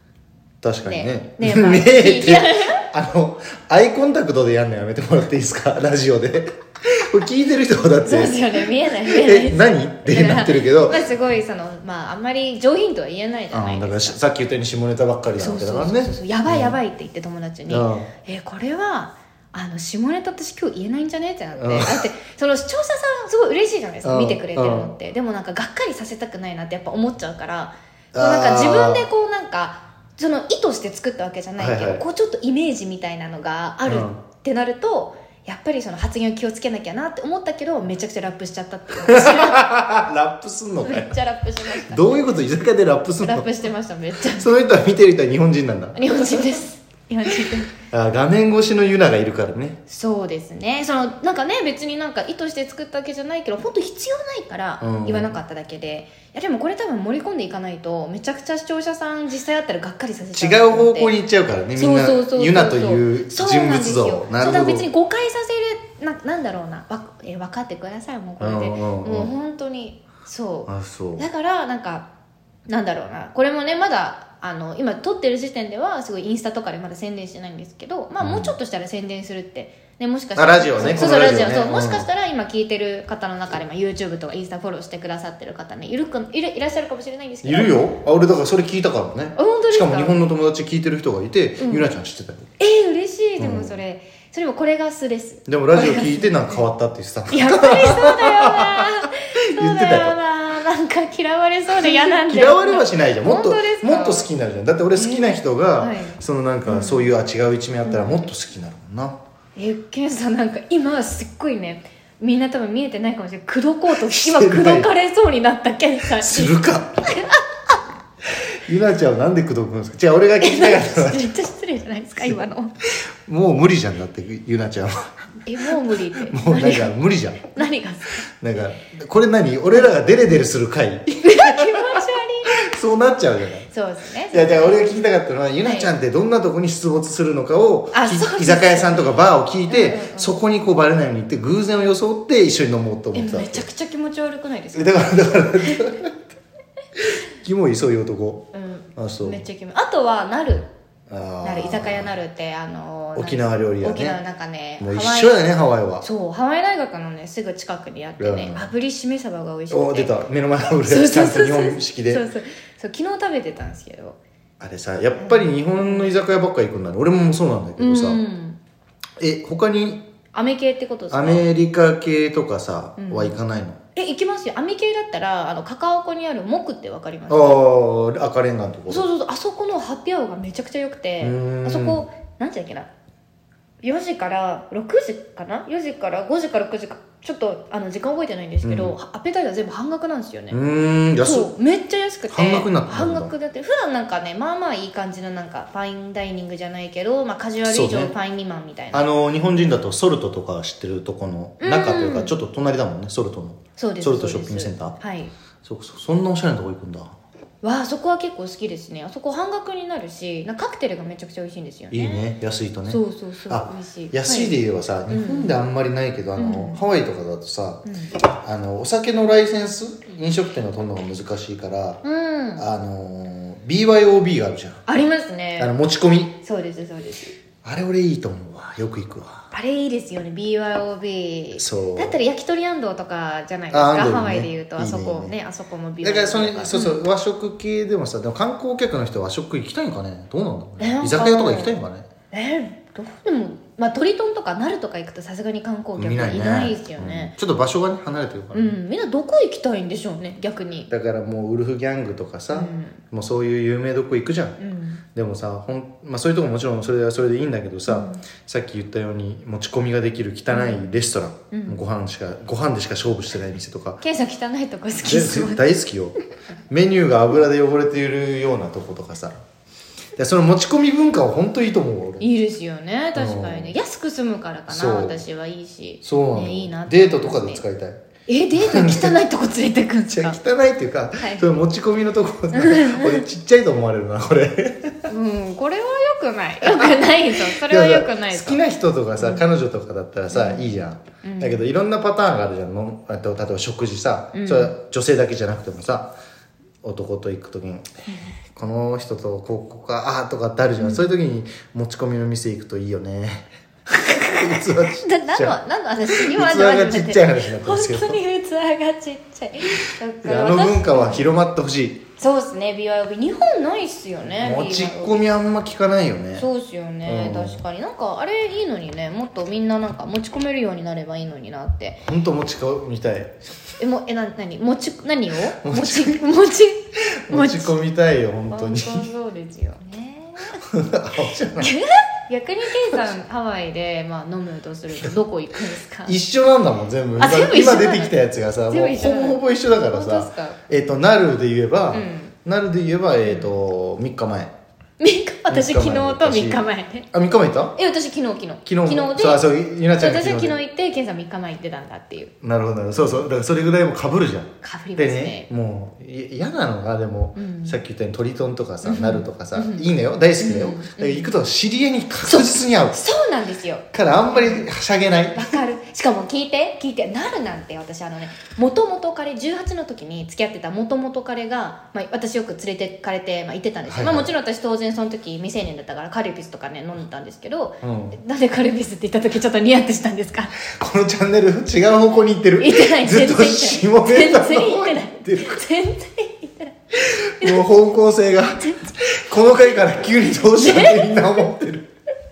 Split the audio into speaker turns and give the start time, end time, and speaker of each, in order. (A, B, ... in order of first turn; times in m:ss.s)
0:00.6-0:11.1 A
0:00.8-0:02.8 B
0:08.0-0:14.2 B
0:13.5-0:16.8 A
0:15.4-0:39.7 B
0:17.7-0:18.1 A
0:21.5-0:22.0 A
0:24.0-0:24.9 A
0:28.1-0:29.1 A
0:31.6-0:32.0 A
0:33.9-0:34.2 A
0:39.0-0:41.2 A
0:40.8-0:42.2 B
0:41.8-0:43.4 A
0:43.2-0:44.5 B
0:44.3-0:46.4 A
0:45.9-0:47.7 B
0:47.7-0:49.8 A
0:49.9-1:01.1 B
0:54.8-0:55.4 A
1:00.3-1:04.9 A
1:01.8-1:12.1 B
1:08.4-1:09.3 A
1:10.7-1:11.2 A
1:12.7-1:27.8 B
1:18.2-1:18.5 A
1:20.4-1:22.1 A
1:27.4-1:32.5 A
1:29.4-1:30.2 B
1:31.6-1:31.9 B
1:32.6-1:36.7 B
1:33.4-1:33.8 A
1:35.5-1:39.0 A
1:37.3-1:44.3 B
1:39.5-1:40.2 A
1:41.7-1:49.2 A
1:44.9-1:47.1 B
1:47.8-1:48.3 B
1:49.6-1:57.4 B
1:54.0-1:54.9 A
1:56.1-1:57.1 A
1:58.6-2:01.3 A
2:00.4-2:02.7 B
2:03.2-2:05.2 A
2:05.5-2:06.9 B
2:06.2-2:07.6 A
2:07.5-2:08.2 B
2:08.4-2:13.7 A
2:11.2-2:12.8 B
2:13.7-2:14.9 B
2:14.3-2:23.6 A
2:15.6-2:15.9 B
2:17.9-2:20.4 B
2:23.1-2:25.9 B
2:24.7-2:26.1 A
2:27.1-2:29.4 A
2:28.5-2:30.7 B
2:31.1-2:32.1 A
2:31.4-2:35.5 B
2:33.2-2:34.2 A
2:34.8-2:36.0 A
2:36.0-2:44.2 B
2:38.2-2:38.7 A
2:39.7-2:42.2 A
2:44.6-2:48.2 A
2:45.2-2:46.2 B
2:47.8-2:48.6 B
2:49.2-2:50.0 A
2:50.3-2:51.5 B
2:51.1-2:53.8 A
2:53.0-2:53.3 B
2:54.0-2:57.6 B
2:57.3-2:59.1 A
2:58.9-3:02.9 B
3:01.2-3:02.0 A
3:03.8-3:10.6 B
3:08.6-3:09.0 A
3:10.5-3:11.5 A
3:11.2-3:19.0 B
3:12.3-3:13.3 A
3:17.6-3:18.1 A
3:18.9-3:24.9 A
3:21.6-3:22.3 B
3:23.8-3:25.3 B
3:25.6-3:27.1 A
3:27.6-3:32.2 B
3:31.9-3:42.0 A
3:32.9-3:34.6 B
3:35.1-3:35.6 B
3:36.4-3:36.8 B
3:37.9-3:38.1 B
3:42.0-3:42.6 B
3:42.6-3:44.8 A
3:44.9-3:45.7 B
3:45.6-3:46.4 A
3:46.4-3:47.4 B
3:47.6-3:49.5 A
3:49.5-3:57.0 B
3:51.6-3:52.2 A
3:53.7-3:55.4 A
3:56.0-4:02.0 A
4:00.8-4:01.7 B
4:02.3-4:07.3 B
4:06.0-4:08.8 A
4:08.5-4:10.9 B
4:10.9-4:14.6 A
4:12.5-4:13.0 B
4:14.6-4:15.0 B
4:15.1-4:24.0 A
4:17.9-4:18.2 B
4:20.5-4:20.8 B
4:21.5-4:21.8 B
4:24.0-4:25.7 B
4:25.0-4:26.2 A
4:26.7-4:29.4 A
4:30.2-4:32.3 A
4:32.2-4:37.6 B
4:33.2-4:33.8 A
4:34.7-4:35.2 A
4:36.0-4:38.0 A
4:38.3-4:40.4 B
4:38.5-4:39.2 A
4:40.1-4:45.1 A
4:41.2-4:41.5 B
4:42.5-4:43.2 B
4:45.1-4:48.6 B
4:46.6-4:56.2 A
4:49.2-4:49.4 B
4:50.3-4:51.6 B
4:54.3-4:54.7 B
4:56.8-4:57.9 A
4:58.1-4:58.3 B
4:58.5-5:05.6 A
5:00.8-5:01.1 B
5:04.3-5:11.3 B
5:06.1-5:08.2 A
5:10.2-5:12.0 A
5:12.2-5:15.2 B
5:14.2-5:16.5 A
5:16.4-5:22.0 B
5:17.0-5:17.6 A
5:22.0-5:23.4 A
5:23.8-5:27.7 B
5:25.6-5:26.2 A
5:27.3-5:29.1 A
5:28.5-5:30.6 B
5:30.7-5:31.7 A
5:31.6-5:36.2 B
5:36.0-5:44.5 A
5:37.2-5:38.2 B
5:38.7-5:40.6 B
5:41.9-5:42.4 B
5:43.2-5:43.5 B
5:45.0-5:47.1 B
5:45.5-5:47.8 A
5:47.8-5:52.3 B
5:48.6-5:50.6 A
5:52.4-6:03.0 A
5:54.6-5:55.5 B
5:57.4-5:57.8 B
5:58.8-5:59.8 B
6:00.4-6:01.3 B
6:02.3-6:04.7 B
6:03.9-6:05.6 A
6:05.3-6:20.6 B
6:13.9-6:14.3 A
6:17.8-6:18.2 A
6:20.7-6:25.6 A
6:22.6-6:27.7 B
6:27.2-6:31.9 A
6:28.6-6:28.9 B
6:30.5-6:31.5 B